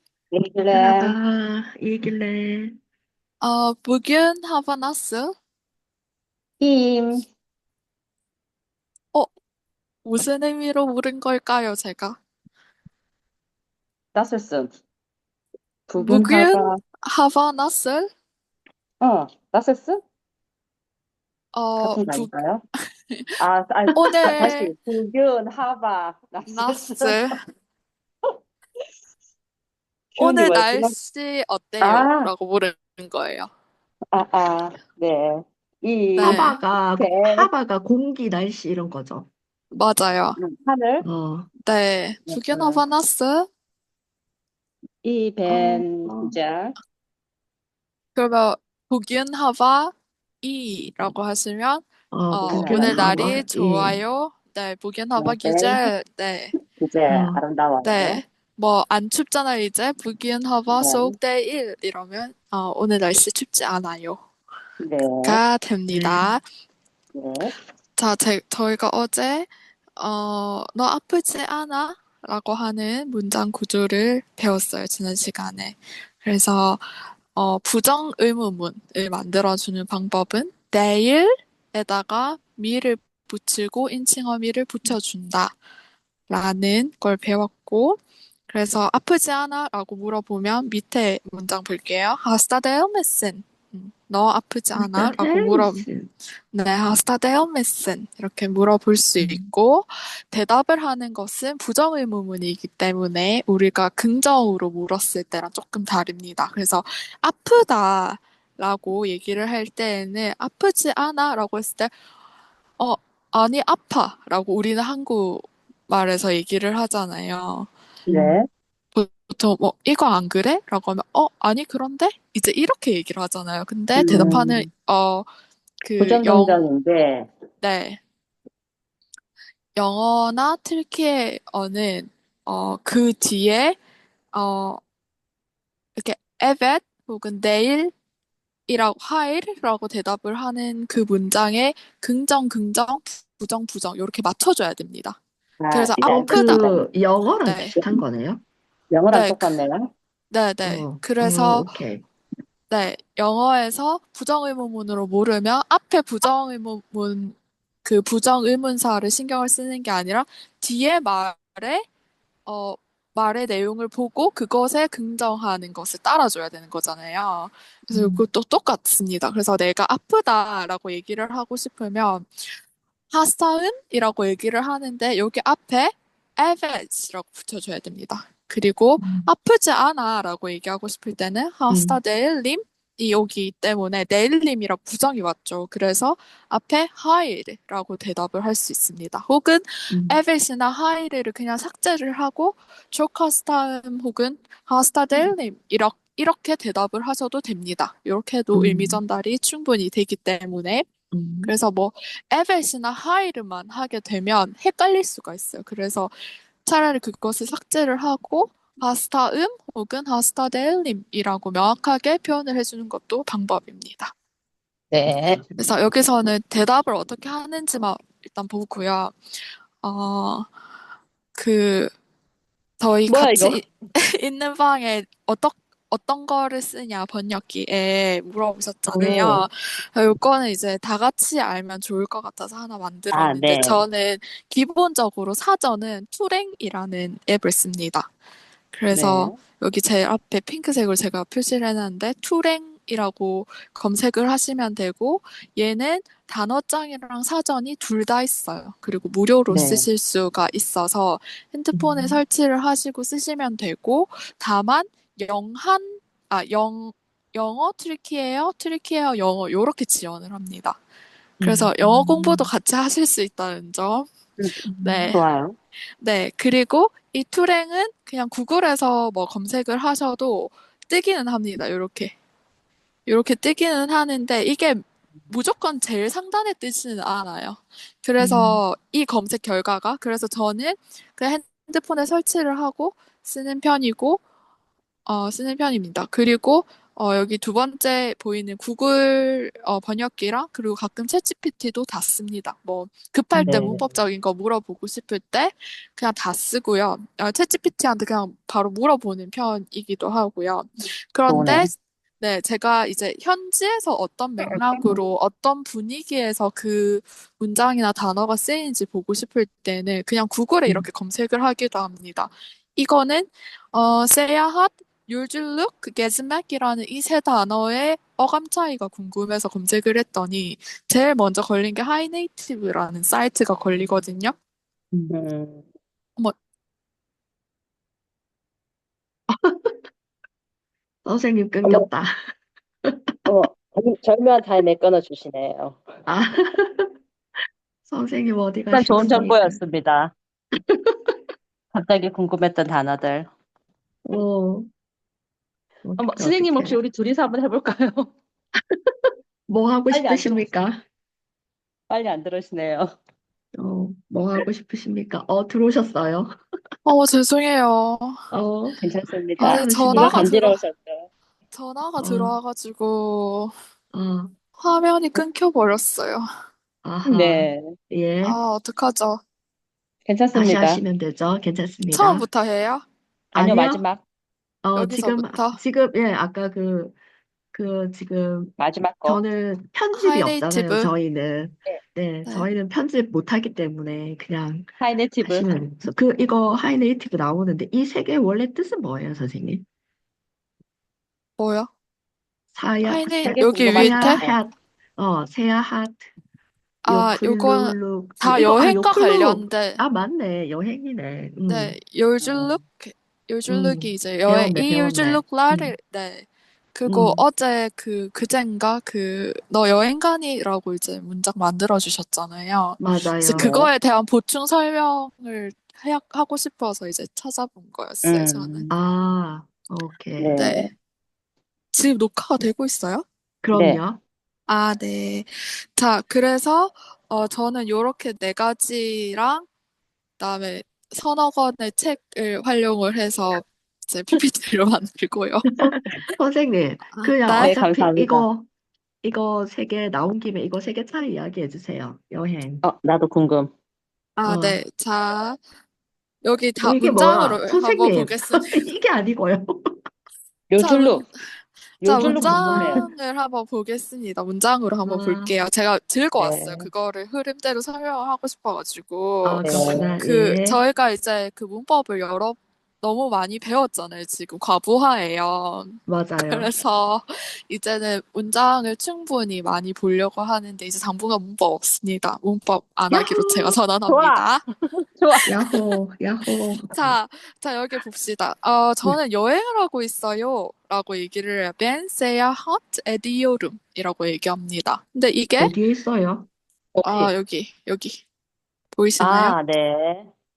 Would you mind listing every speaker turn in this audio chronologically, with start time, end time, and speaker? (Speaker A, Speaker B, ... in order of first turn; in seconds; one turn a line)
Speaker A: 0.3-1.2
Speaker B: 0.7-2.8
Speaker C: 3.4-5.3
Speaker A: 6.6-7.2
Speaker C: 10.0-12.2
Speaker A: 14.1-14.7
Speaker A: 15.9-16.8
Speaker C: 16.0-18.1
Speaker A: 19.0-20.0
Speaker C: 21.5-22.4
Speaker A: 21.8-22.6
Speaker A: 23.4-27.2
Speaker C: 23.9-24.7
Speaker C: 26.5-27.4
Speaker A: 30.2-30.9
Speaker C: 30.2-33.5
Speaker A: 31.8-32.3
Speaker A: 34.1-37.5
Speaker C: 36.2-36.6
Speaker B: 36.2-39.3
Speaker C: 39.7-40.4
Speaker A: 40.4-41.0
Speaker B: 41.0-41.5
Speaker C: 41.6-43.5
Speaker A: 42.3-42.8
Speaker A: 45.0-46.8
Speaker B: 45.5-46.3
Speaker C: 48.1-56.5
Speaker B: 52.1-54.0
Speaker A: 52.5-53.4
Speaker A: 55.1-55.9
Speaker A: 56.7-58.2
Speaker B: 57.1-57.4
Speaker C: 57.8-64.2
Speaker A: 60.7-61.2
Speaker A: 64.8-65.4
Speaker C: 65.2-66.4
Speaker B: 65.9-66.3
Speaker A: 67.1-67.5
Speaker C: 68.0-85.5
Speaker C: 86.3-95.9
Speaker B: 94.8-96.1
Speaker C: 96.5-111.9
Speaker B: 99.2-99.5
Speaker C: 112.8-117.7
Speaker A: 118.1-118.5
Speaker B: 118.1-118.4
Speaker C: 118.9-125.3
Speaker A: 124.0-124.7
Speaker B: 124.0-124.5
Speaker C: 125.8-126.7
Speaker A: 126.0-127.3
Speaker C: 127.6-128.0
Speaker C: 129.8-133.8
Speaker C: 134.3-134.8
Speaker C: 135.9-137.9
Speaker C: 138.7-145.2
Speaker A: 145.6-146.8
Speaker C: 145.7-146.7
Speaker B: 146.0-148.4
Speaker C: 147.4-147.8
Speaker A: 148.9-149.9
Speaker C: 149.1-149.6
Speaker C: 150.3-151.8
Speaker B: 150.6-152.0
Speaker C: 152.7-161.8
Speaker C: 162.4-172.6
Speaker B: 167.9-168.2
Speaker C: 173.1-200.9
Speaker B: 179.0-179.3
Speaker B: 181.7-182.0
Speaker B: 189.9-190.2
Speaker B: 198.5-199.0
Speaker B: 201.1-201.5
Speaker C: 201.4-214.1
Speaker A: 214.9-215.4
Speaker C: 215.6-219.2
Speaker C: 219.8-220.5
Speaker C: 221.3-221.9
Speaker C: 222.8-238.1
Speaker A: 223.1-223.7
Speaker A: 228.9-229.4
Speaker A: 233.1-233.8
Speaker C: 238.7-260.8
Speaker A: 238.9-239.4
Speaker A: 249.5-249.8
Speaker B: 251.7-252.2
Speaker B: 261.4-262.5
Speaker C: 261.4-264.1
Speaker A: 264.4-265.6
Speaker B: 264.6-265.1
Speaker C: 264.8-265.2
Speaker C: 266.0-272.1
Speaker C: 273.1-284.2
Speaker B: 278.2-278.6
Speaker C: 285.1-324.4
Speaker A: 293.3-293.9
Speaker A: 301.3-301.7
Speaker A: 325.1-325.6
Speaker B: 329.3-329.8
Speaker B: 331.1-332.1
Speaker A: 331.6-331.9
Speaker B: 332.9-333.2
Speaker A: 333.3-335.8
Speaker B: 336.1-336.9
Speaker B: 337.9-339.6
Speaker A: 338.7-340.1
Speaker B: 340.6-341.2
Speaker A: 341.7-343.3
Speaker B: 344.1-344.7
Speaker B: 345.8-346.8
Speaker A: 346.0-348.1
Speaker B: 348.7-350.8
Speaker A: 349.9-350.7
Speaker A: 351.9-352.9
Speaker B: 353.6-356.3
Speaker C: 356.9-358.2
Speaker B: 358.3-358.8
Speaker A: 358.8-361.1
Speaker B: 359.4-360.3
Speaker C: 359.4-360.6
Speaker C: 361.5-363.5
Speaker B: 362.0-362.4
Speaker B: 363.9-364.3
Speaker C: 364.6-366.3
Speaker B: 366.8-368.4
Speaker A: 367.0-367.7
Speaker C: 368.2-369.2
Speaker A: 370.1-370.8
Speaker B: 370.3-372.3
Speaker C: 371.9-372.8
Speaker A: 373.3-374.0
Speaker B: 373.3-373.8
Speaker B: 374.6-377.0
Speaker C: 374.8-375.6
Speaker B: 377.5-384.7
Speaker A: 378.6-379.2
Speaker C: 379.9-380.9
Speaker C: 382.2-382.5
Speaker A: 384.8-385.7
Speaker B: 385.2-389.6
Speaker C: 391.4-391.7
Speaker B: 392.5-396.1
Speaker C: 392.8-394.2
Speaker A: 393.2-394.4
Speaker C: 396.8-399.8
Speaker B: 396.9-401.8
Speaker C: 401.5-418.7
Speaker A: 402.2-402.6
Speaker B: 403.5-405.8
Speaker B: 406.9-407.2
Speaker B: 412.8-413.5
Speaker A: 413.4-413.7
Speaker A: 418.1-418.7
Speaker B: 418.7-420.6
Speaker A: 420.2-420.7
Speaker C: 420.4-420.7
Speaker C: 421.7-423.0
Speaker B: 423.4-424.0
Speaker A: 423.5-423.9
Speaker C: 424.5-429.5
Speaker C: 430.2-435.6
Speaker B: 435.6-438.5
Speaker C: 436.9-437.6
Speaker A: 437.4-438.3
Speaker B: 439.0-442.6
Speaker A: 442.6-443.5
Speaker C: 444.2-445.4
Speaker B: 444.3-444.6
Speaker C: 446.2-448.6
Speaker B: 446.6-449.7
Speaker A: 450.5-451.1
Speaker C: 450.6-451.1
Speaker A: 451.8-452.9
Speaker C: 451.8-474.4
Speaker B: 452.0-452.9
Speaker B: 454.9-455.4
Speaker A: 456.2-456.7
Speaker B: 459.2-460.6
Speaker A: 459.4-460.0
Speaker B: 465.9-466.5
Speaker B: 472.9-473.6
Speaker A: 473.9-474.4
Speaker A: 475.0-475.3
Speaker B: 475.3-476.9
Speaker C: 476.7-485.6
Speaker B: 485.4-486.3
Speaker A: 486.8-487.1
Speaker C: 486.8-488.0
Speaker C: 488.7-489.4
Speaker A: 489.0-490.1